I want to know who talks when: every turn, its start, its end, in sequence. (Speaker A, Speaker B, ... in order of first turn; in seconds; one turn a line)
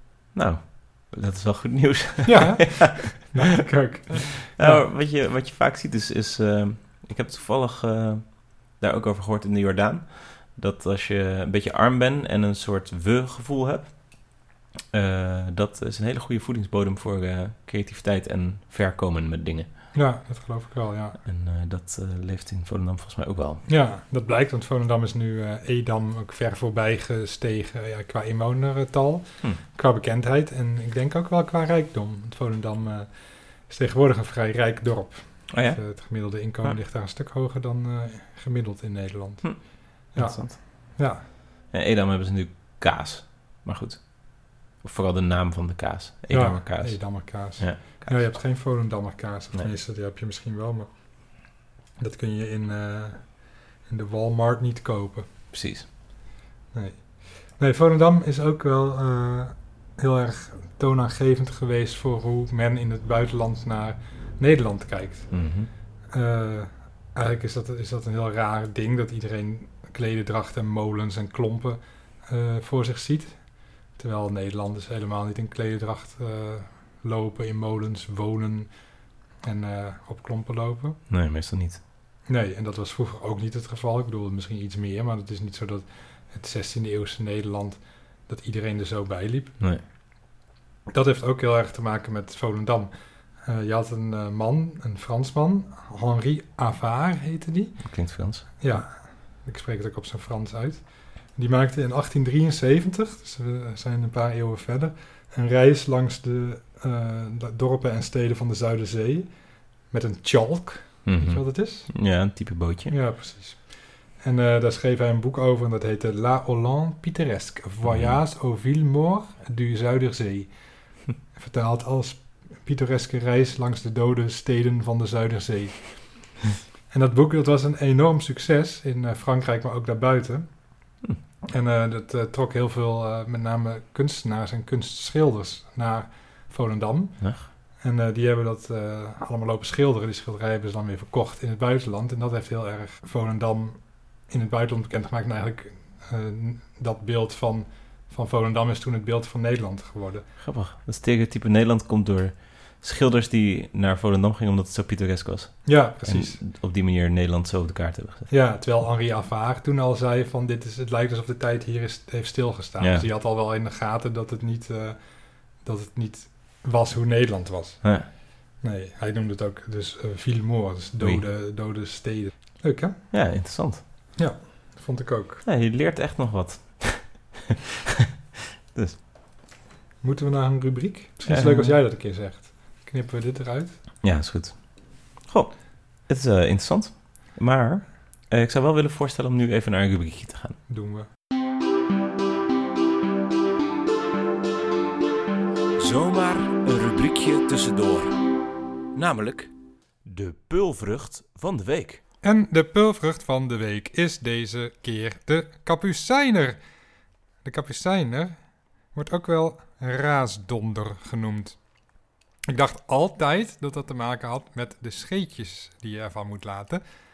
Speaker A: 0.3-3.2
Speaker B: 2.2-4.8
Speaker A: 4.1-19.7
Speaker B: 19.9-21.2
Speaker A: 21.2-23.6
Speaker B: 23.6-41.2
Speaker A: 35.5-35.9
Speaker A: 39.4-40.6
Speaker A: 41.7-48.5
Speaker B: 46.3-55.3
Speaker A: 55.5-55.9
Speaker B: 56.7-65.5
Speaker A: 65.3-65.7
Speaker B: 66.1-81.0
Speaker A: 81.1-81.8
Speaker B: 82.3-89.6
Speaker B: 90.9-111.9
Speaker A: 97.8-98.5
Speaker A: 111.0-113.0
Speaker B: 112.9-126.4
Speaker A: 117.8-118.2
Speaker B: 126.9-130.9
Speaker B: 131.5-150.3
Speaker A: 137.2-137.5
Speaker A: 150.4-158.3
Speaker B: 155.6-156.4
Speaker B: 158.3-173.1
Speaker A: 162.8-163.1
Speaker A: 173.1-173.8
Speaker B: 174.2-175.4
Speaker A: 175.4-177.5
Speaker A: 178.7-179.0
Speaker B: 180.0-183.8
Speaker A: 181.2-181.8
Speaker A: 184.0-190.6
Speaker B: 190.7-191.1
Speaker C: 195.8-198.1
Speaker A: 198.9-199.5
Speaker A: 200.0-202.0
Speaker B: 202.2-206.6
Speaker B: 207.4-211.6
Speaker B: 212.5-216.8